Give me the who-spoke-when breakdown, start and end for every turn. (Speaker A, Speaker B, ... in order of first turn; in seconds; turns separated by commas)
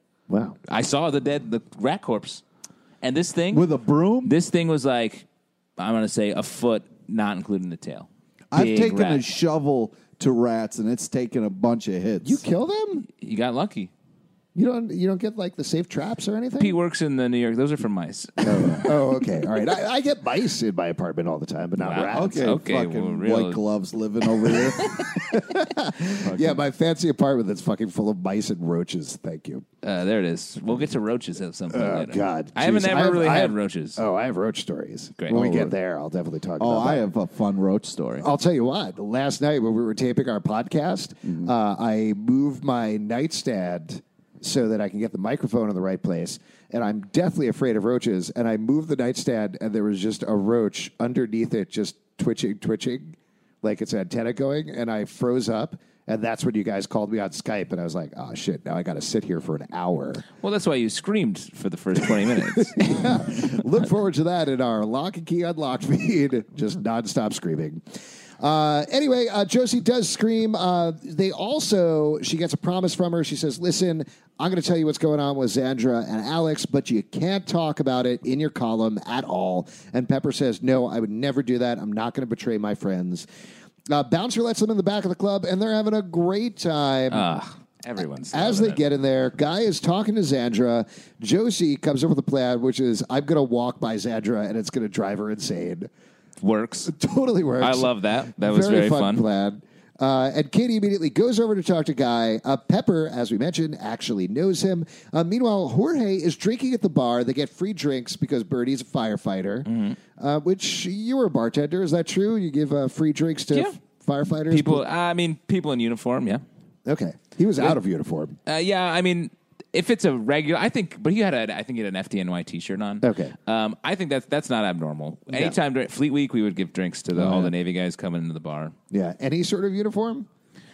Speaker A: 0.3-0.6, Speaker B: 0.7-2.4, Speaker B: 3.0-3.7, Speaker C: 3.5-4.3, Speaker B: 4.2-5.2, Speaker B: 5.8-9.2, Speaker C: 8.5-12.4, Speaker A: 12.2-13.1, Speaker B: 13.1-13.9, Speaker A: 14.5-16.8, Speaker B: 16.6-18.9, Speaker A: 18.4-22.5, Speaker B: 21.8-23.6, Speaker C: 22.1-24.9, Speaker A: 24.5-29.6, Speaker C: 26.2-26.6, Speaker B: 29.8-34.0, Speaker A: 31.7-37.0, Speaker B: 35.2-35.7, Speaker C: 35.4-35.6, Speaker C: 36.6-38.3, Speaker A: 38.2-60.2, Speaker C: 41.2-41.5, Speaker B: 60.4-63.5, Speaker A: 62.5-67.8, Speaker A: 68.4-83.3, Speaker A: 83.9-87.3, Speaker B: 87.1-88.8, Speaker A: 88.3-95.9, Speaker B: 96.4-96.9, Speaker A: 96.8-114.8, Speaker B: 97.6-99.2, Speaker B: 109.7-110.0, Speaker B: 114.5-116.4, Speaker A: 116.8-118.4, Speaker B: 118.5-128.7, Speaker A: 123.0-123.3, Speaker A: 125.3-125.6, Speaker A: 127.2-127.5, Speaker A: 128.9-130.3